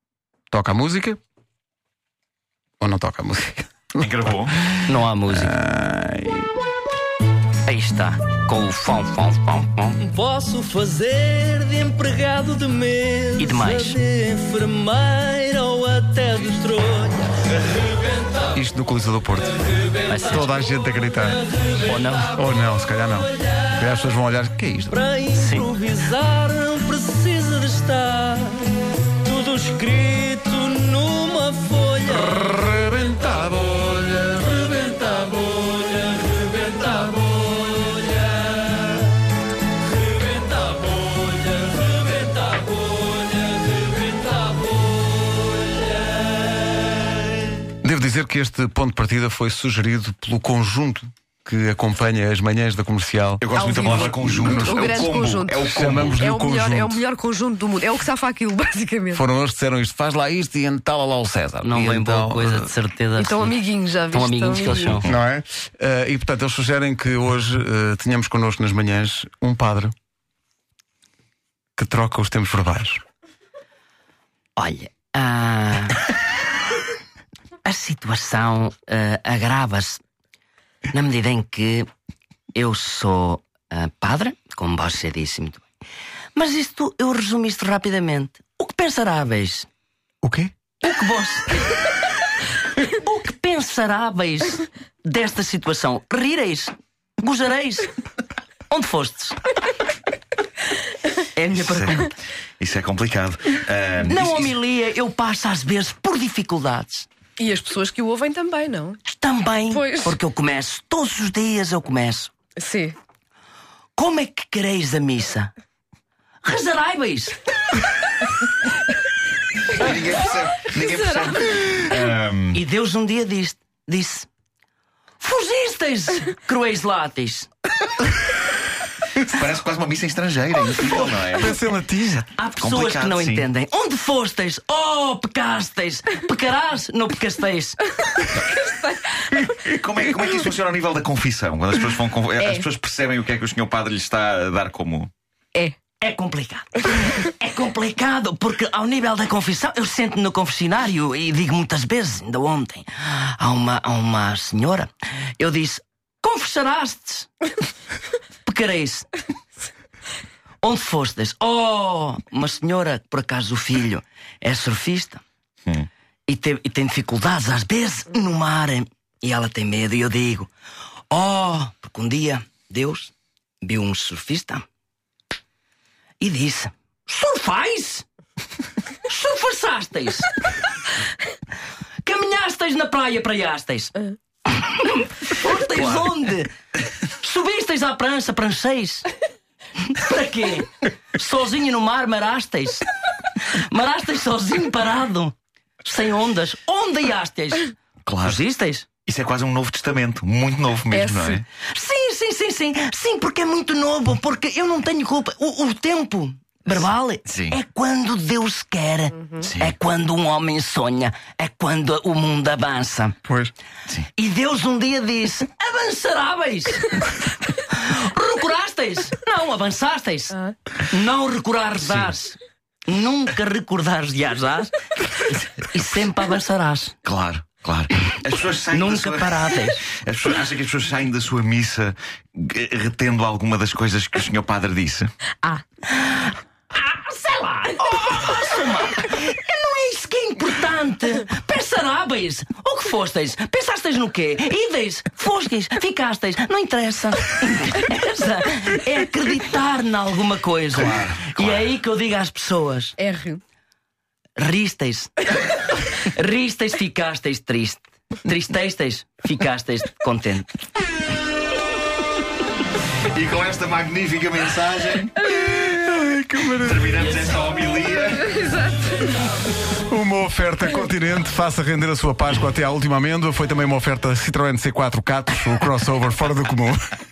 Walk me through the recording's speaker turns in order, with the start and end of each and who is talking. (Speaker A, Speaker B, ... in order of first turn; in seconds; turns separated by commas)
Speaker A: 0.5-1.2, Speaker A: 2.8-4.1, Speaker B: 4.0-4.6, Speaker A: 4.8-6.5, Speaker C: 4.9-5.5, Speaker C: 7.7-10.0, Speaker D: 10.0-17.5, Speaker C: 13.4-14.0, Speaker A: 18.5-19.6, Speaker C: 20.1-20.5, Speaker A: 20.2-21.4, Speaker C: 21.8-22.3, Speaker A: 22.3-25.0, Speaker D: 24.9-32.4, Speaker C: 25.3-25.7, Speaker A: 32.1-35.3, Speaker D: 36.8-37.1, Speaker A: 47.8-55.0, Speaker B: 53.4-56.2, Speaker E: 53.6-59.2, Speaker A: 55.7-57.0, Speaker A: 59.1-62.7, Speaker C: 61.6-63.6, Speaker E: 63.2-65.0, Speaker C: 64.1-65.1, Speaker A: 65.0-69.9, Speaker A: 71.8-73.0, Speaker C: 74.6-76.0, Speaker C: 77.7-80.0, Speaker C: 80.9-81.9, Speaker C: 82.5-85.7, Speaker C: 86.3-89.7, Speaker A: 90.2-90.5, Speaker C: 90.8-92.0, Speaker C: 92.8-97.9, Speaker C: 98.7-99.4, Speaker C: 101.4-102.1, Speaker B: 101.6-104.6, Speaker C: 104.1-107.1, Speaker E: 107.4-109.0, Speaker C: 109.0-112.3, Speaker E: 109.7-110.2, Speaker E: 112.6-113.0, Speaker C: 114.0-115.5, Speaker C: 116.4-117.4, Speaker B: 119.7-122.6, Speaker E: 120.9-121.5, Speaker C: 122.5-124.3, Speaker C: 125.2-127.5, Speaker B: 129.2-133.5, Speaker A: 131.3-132.2, Speaker C: 132.4-137.8, Speaker E: 138.6-139.0, Speaker B: 139.5-145.1, Speaker C: 146.0-157.3, Speaker C: 158.4-159.2, Speaker C: 160.6-165.2, Speaker C: 166.3-170.5, Speaker C: 171.1-174.6, Speaker C: 176.2-178.1, Speaker C: 179.1-180.4, Speaker C: 182.0-186.6, Speaker C: 187.1-189.1, Speaker C: 189.8-198.9, Speaker B: 198.1-198.4, Speaker B: 199.1-201.5, Speaker E: 200.9-201.4, Speaker C: 201.7-213.2, Speaker B: 207.2-207.6, Speaker B: 209.4-209.7, Speaker A: 213.2-213.5, Speaker C: 214.2-226.9, Speaker B: 227.1-235.1, Speaker C: 228.7-229.8, Speaker C: 235.5-253.0, Speaker B: 250.7-251.7, Speaker E: 253.0-253.4, Speaker C: 254.4-260.5, Speaker B: 263.1-265.2, Speaker A: 265.4-267.0, Speaker B: 266.6-268.4, Speaker E: 268.3-269.3, Speaker A: 269.9-276.9